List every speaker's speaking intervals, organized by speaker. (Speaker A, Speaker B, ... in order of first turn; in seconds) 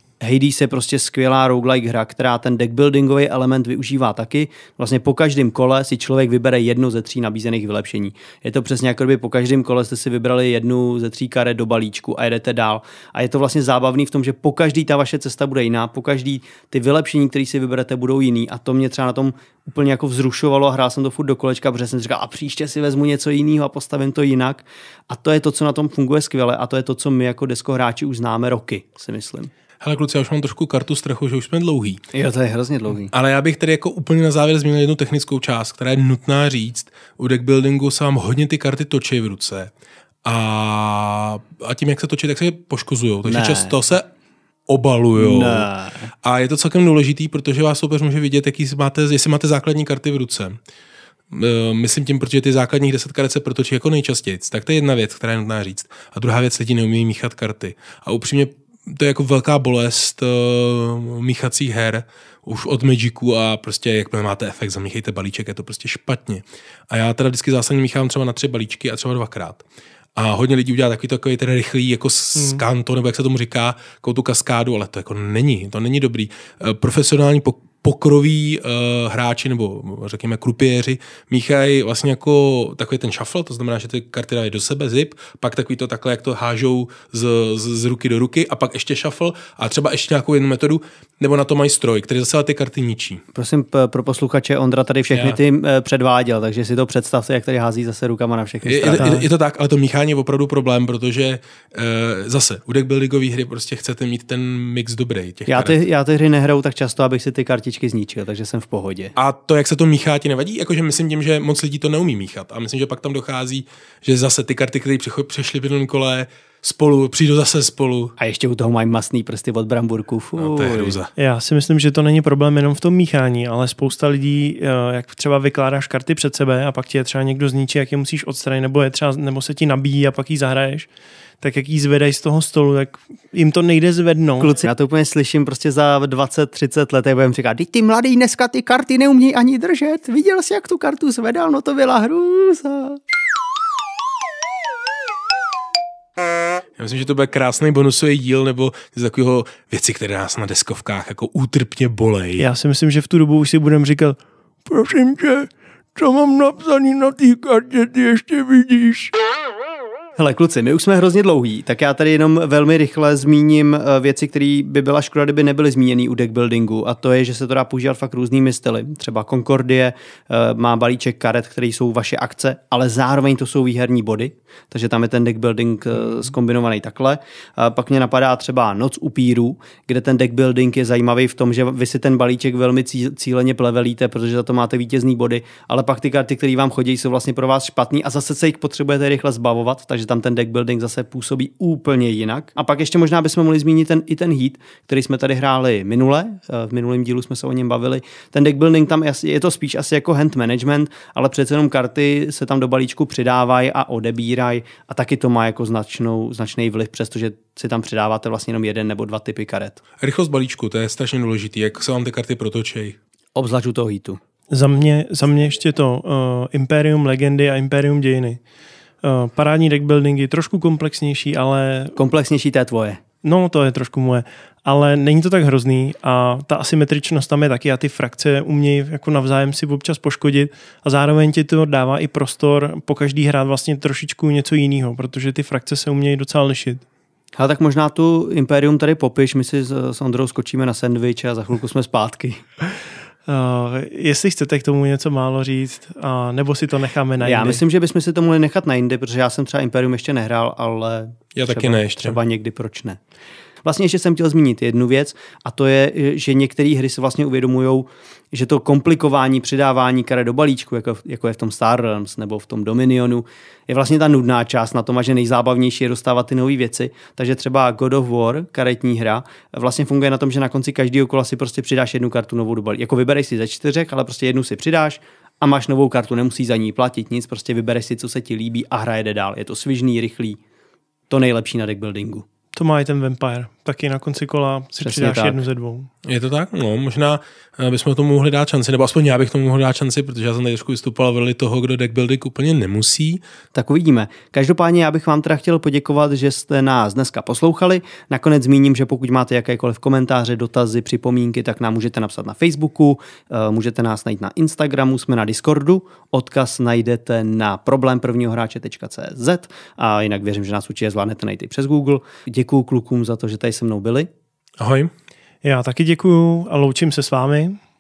Speaker A: 0.2-29.5, 32.1-33.1, 43.2-43.7, 45.1-46.1, 93.3-99.2, 105.5-109.1, 118.2-121.0, 134.4-143.0, 160.2-209.8, 213.3-214.2, 221.9-223.0, 237.3-242.4, 247.2-253.0, 253.6-280.4, 281.1-282.2, 284.8-285.4, 293.5-314.1
Speaker B: 29.8-32.0, 33.1-39.7, 40.2-44.0, 44.7-45.7, 46.2-50.6, 51.3-69.6, 70.2-93.2, 95.1-95.4, 98.6-105.8, 109.2-118.1, 120.4-121.1, 146.8-152.4, 210.0-213.0, 251.3-252.2, 286.0-293.2, 314.6-314.9
Speaker C: 121.2-130.9, 131.4-134.6, 152.4-159.1, 214.5-218.4, 219.0-221.9, 223.2-236.8, 243.3-247.6, 282.5-285.9, 315.4-317.6